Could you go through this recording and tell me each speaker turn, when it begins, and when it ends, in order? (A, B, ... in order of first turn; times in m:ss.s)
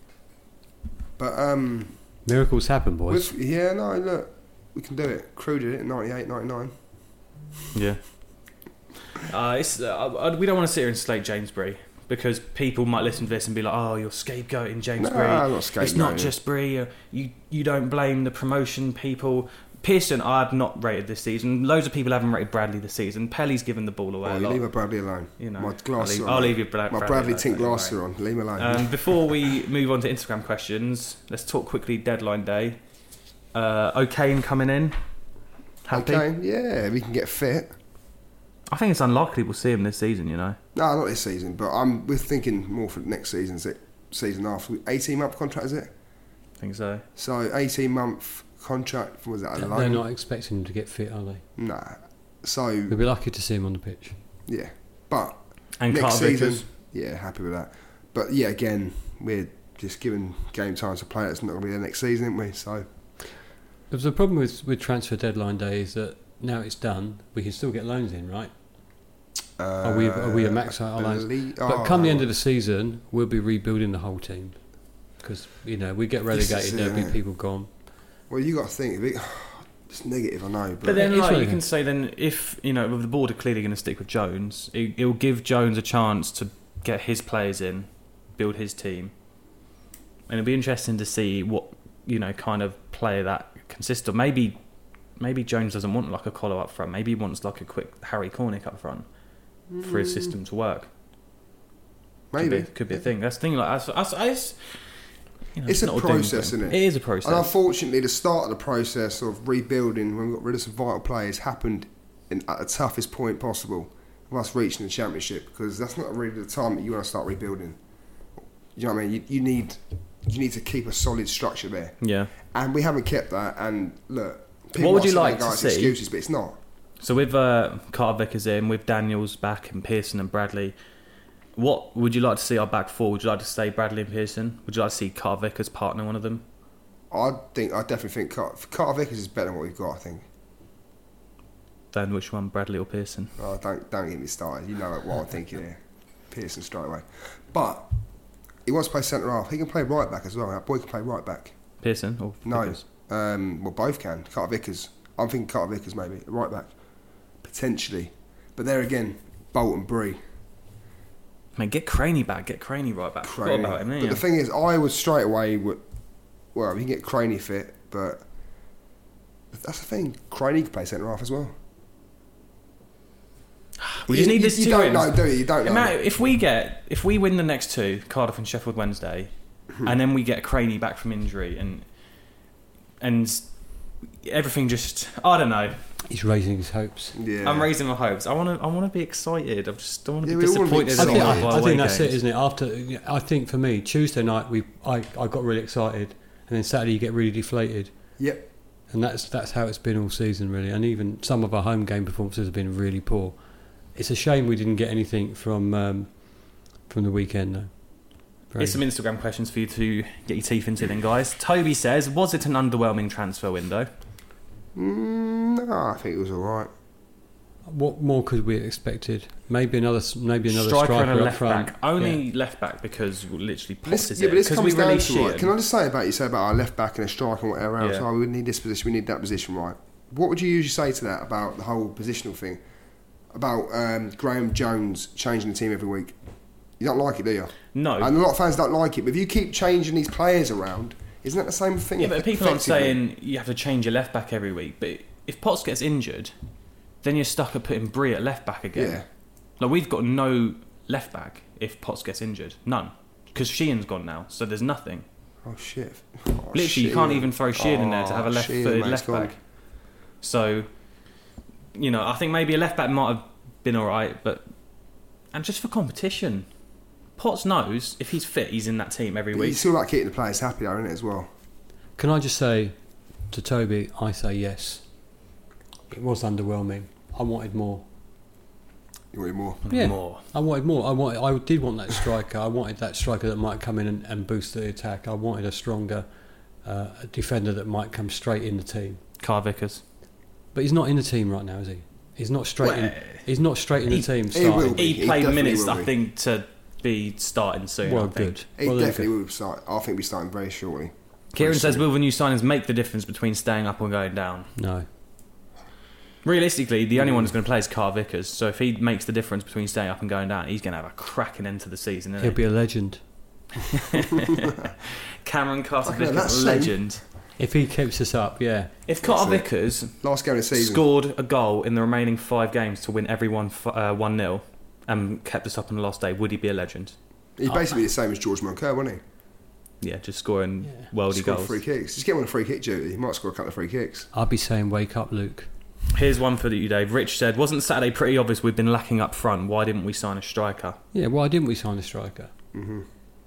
0:01.2-0:01.9 A
0:02.2-0:03.3 B
0:03.1-0:06.7 A
0:07.7-0:08.0 C
0:09.2-0:24.6 C
0:15.0-0:16.3 A
0:24.2-0:28.9 A
0:25.4-0:28.0 C
0:28.6-0:32.8 C
0:33.5-0:35.0 C
0:35.8-0:36.2 C
0:35.9-0:37.7 A
0:38.7-0:40.6 C
0:40.7-0:45.9 A
0:46.6-0:47.0 C
0:47.2-0:50.0 A
0:49.6-0:51.4 B
0:51.6-0:53.0 A
0:52.9-0:54.2 B
0:54.5-1:02.8 A
0:55.8-0:56.6 C
1:03.9-1:08.5 B
1:09.6-1:12.3 A
1:09.8-1:14.6 B
1:15.2-1:17.7 B
1:16.3-1:17.2 A
1:18.3-1:21.0 A
1:20.8-1:29.1 C
1:21.0-1:21.6 B
1:30.3-1:34.6 C
1:35.2-1:39.0 C
1:39.7-1:40.3 A
1:39.8-1:40.9 C
1:42.3-1:43.0 A
1:42.4-1:44.6 C
1:45.5-1:47.5 C
1:45.6-1:57.8 A
1:58.7-2:06.6 A
2:02.0-2:02.3 C
2:04.8-2:06.0 C
2:07.0-2:10.8 C
2:11.6-2:16.4 C
2:17.1-2:20.2 A
2:21.9-2:23.3 C
2:23.4-2:25.8 A
2:26.3-2:27.9 A
2:28.6-2:31.5 A
2:31.8-2:32.8 C
2:32.4-2:36.7 A
2:37.4-2:40.2 A
2:41.6-2:44.2 C
2:43.2-2:45.8 A
2:46.5-2:48.2 A
2:49.5-2:51.5 A
2:53.8-2:59.3 C
2:54.1-2:55.9 A
2:59.8-3:01.8 C
3:03.0-3:03.4 C
3:04.2-3:05.8 C
3:06.0-3:07.2 B
3:07.1-3:07.7 A
3:07.4-3:12.2 C
3:10.2-3:11.5 A
3:11.0-3:17.9 B
3:18.2-3:18.4 A
3:18.9-3:23.4 B
3:23.9-3:26.1 B
3:26.9-3:27.7 B
3:28.5-3:28.8 B
3:28.6-3:33.9 C
3:34.8-3:36.7 A
3:37.6-3:42.2 B
3:40.5-3:45.5 C
3:43.9-3:52.6 A
3:47.8-3:48.0 C
3:53.3-3:56.1 A
3:56.8-4:03.0 A
3:57.7-3:58.1 C
4:02.0-4:06.3 C
4:07.0-4:09.0 C
4:08.7-4:09.0 A
4:09.6-4:15.0 C
4:15.4-4:19.3 A
4:16.5-4:19.4 C
4:20.2-4:20.7 C
4:21.7-4:24.4 C
4:25.3-4:26.5 C
4:27.2-4:29.6 C
4:29.3-4:31.3 A
4:32.0-4:32.8 B
4:33.3-4:34.8 B
4:35.9-4:37.8 B
4:39.1-4:39.6 A
4:39.6-4:40.2 C
4:39.7-4:46.0 B
4:46.6-4:49.0 B
4:49.2-4:49.8 C
4:50.5-4:54.8 B
4:52.6-4:53.2 C
4:54.3-4:55.9 A
4:54.8-4:58.4 C
4:57.8-4:59.1 B
4:58.6-5:01.8 A
5:01.3-5:04.5 C
5:04.6-5:04.9 B
5:06.2-5:12.4 C
5:12.2-5:13.0 B
5:13.7-5:17.0 C
5:15.8-5:16.8 A
5:17.4-5:18.7 B
5:18.9-5:20.0 C
5:19.0-5:19.4 A
5:20.0-5:20.8 A
5:20.5-5:26.9 C
5:27.4-5:29.0 A
5:29.8-5:31.6 C
5:31.1-5:34.1 A
5:34.1-5:35.5 B
5:35.9-5:40.8 C
5:40.9-5:42.3 B
5:42.5-5:42.8 A